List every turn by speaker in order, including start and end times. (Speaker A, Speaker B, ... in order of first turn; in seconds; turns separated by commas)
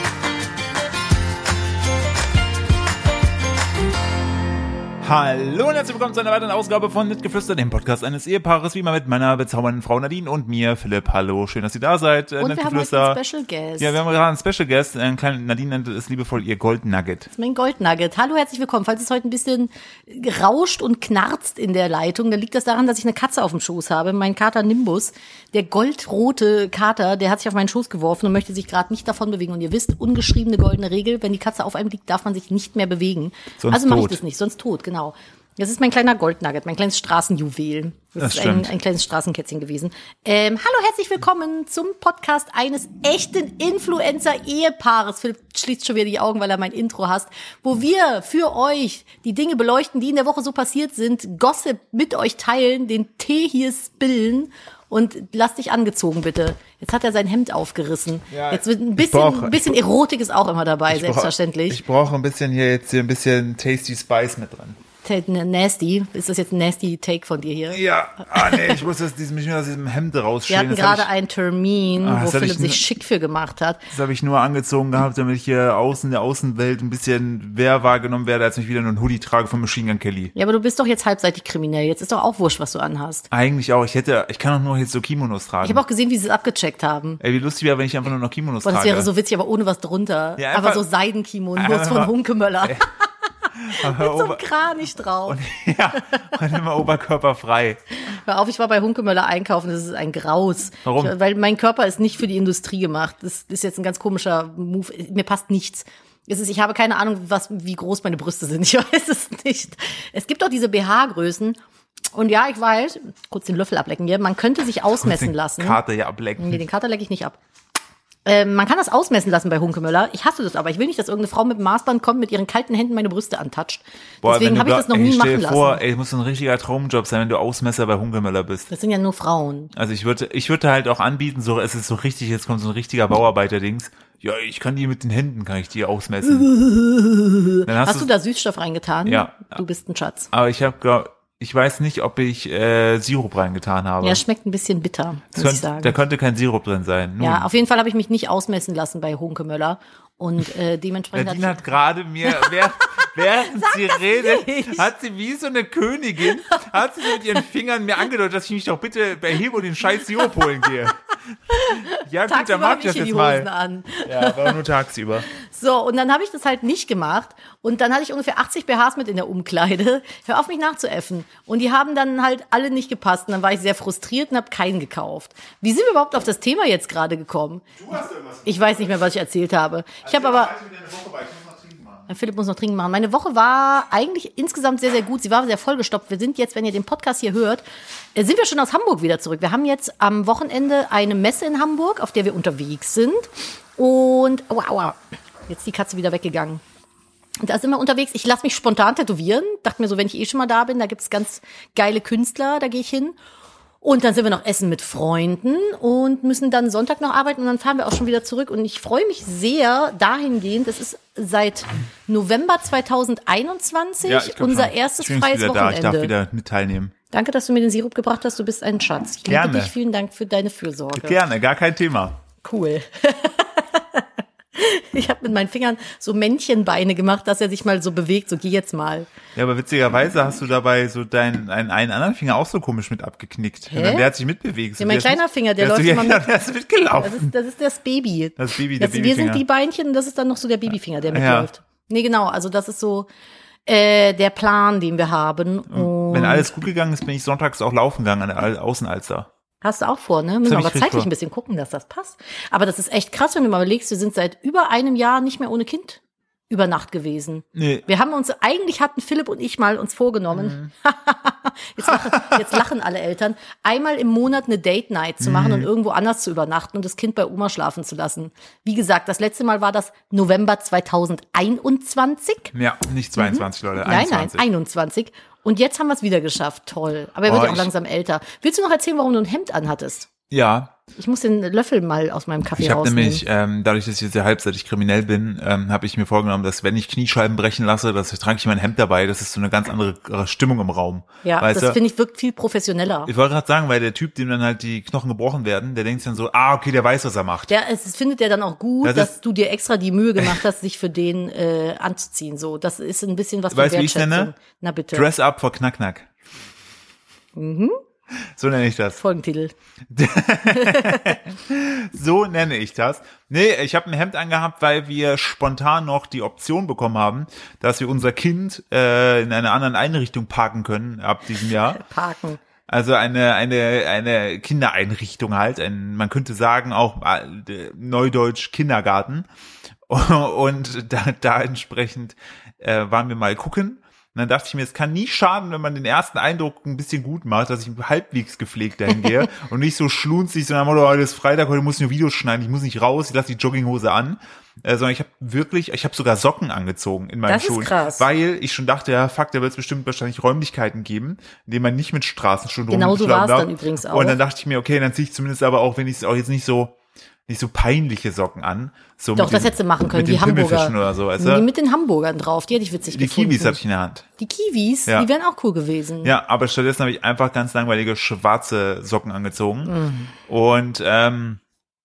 Speaker A: 5.0-13.2, Speaker B: 12.4-14.0, Speaker A: 13.8-17.3, Speaker B: 17.3-61.8, Speaker A: 33.6-34.2, Speaker A: 38.2-38.7, Speaker A: 58.3-59.7, Speaker A: 60.9-64.8, Speaker B: 65.0-68.8, Speaker A: 67.7-71.1, Speaker B: 70.5-73.8, Speaker A: 72.0-72.8, Speaker A: 73.9-80.3, Speaker B: 80.3-83.3, Speaker A: 83.3-85.8, Speaker B: 85.6-87.2, Speaker A: 87.2-89.1, Speaker B: 88.6-93.1, Speaker A: 90.4-90.8, Speaker A: 91.5-92.9, Speaker A: 93.5-94.4, Speaker B: 93.7-95.4, Speaker A: 95.2-97.8, Speaker B: 98.0-111.6, Speaker A: 100.8-101.1, Speaker B: 112.1-115.8, Speaker A: 115.0-116.6, Speaker B: 116.4-117.4, Speaker B: 118.2-125.8, Speaker A: 124.2-128.7, Speaker B: 128.7-129.7, Speaker A: 129.7-136.5, Speaker B: 136.2-140.3, Speaker A: 137.6-138.1, Speaker A: 139.1-139.6, Speaker A: 140.3-144.2, Speaker B: 144.0-145.9, Speaker A: 145.3-147.5, Speaker B: 147.2-151.6, Speaker A: 151.1-161.0, Speaker B: 152.3-154.9, Speaker B: 156.5-157.4, Speaker B: 161.5-164.6, Speaker A: 161.7-163.5, Speaker A: 164.0-165.3, Speaker B: 165.3-177.7, Speaker A: 177.8-179.1, Speaker B: 178.4-180.5, Speaker A: 180.0-182.1, Speaker B: 182.1-187.6, Speaker B: 188.1-196.6, Speaker B: 197.4-203.2, Speaker B: 203.8-216.1, Speaker A: 214.0-216.9, Speaker B: 217.1-221.2, Speaker A: 219.3-219.7, Speaker A: 220.9-222.2, Speaker B: 222.4-229.1, Speaker A: 229.3-237.3, Speaker B: 233.7-234.1, Speaker B: 234.8-236.3, Speaker B: 237.0-243.1, Speaker A: 238.4-239.4, Speaker A: 241.1-241.5, Speaker B: 243.7-246.6, Speaker A: 245.7-249.3, Speaker B: 249.6-272.5, Speaker A: 250.4-251.1, Speaker A: 257.5-257.9, Speaker A: 260.4-260.7, Speaker A: 261.9-262.4, Speaker A: 265.2-265.7, Speaker A: 272.5-274.4, Speaker B: 273.2-280.1, Speaker A: 277.2-277.7, Speaker A: 280.3-280.8, Speaker B: 280.9-283.2, Speaker A: 282.6-291.8, Speaker B: 291.2-293.1, Speaker A: 293.1-297.5, Speaker B: 297.5-305.1, Speaker A: 298.8-299.1, Speaker A: 303.5-304.3, Speaker A: 304.9-306.1, Speaker B: 307.3-307.8, Speaker A: 308.4-309.0, Speaker B: 309.0-309.5, Speaker A: 309.9-321.8, Speaker B: 310.5-311.2, Speaker B: 321.4-322.4, Speaker A: 322.7-329.3, Speaker A: 329.9-356.7, Speaker B: 347.3-348.1, Speaker B: 352.7-354.2, Speaker A: 357.3-361.4, Speaker B: 359.2-363.6, Speaker A: 362.9-364.1, Speaker B: 364.2-366.1, Speaker A: 366.0-371.4, Speaker B: 369.6-370.1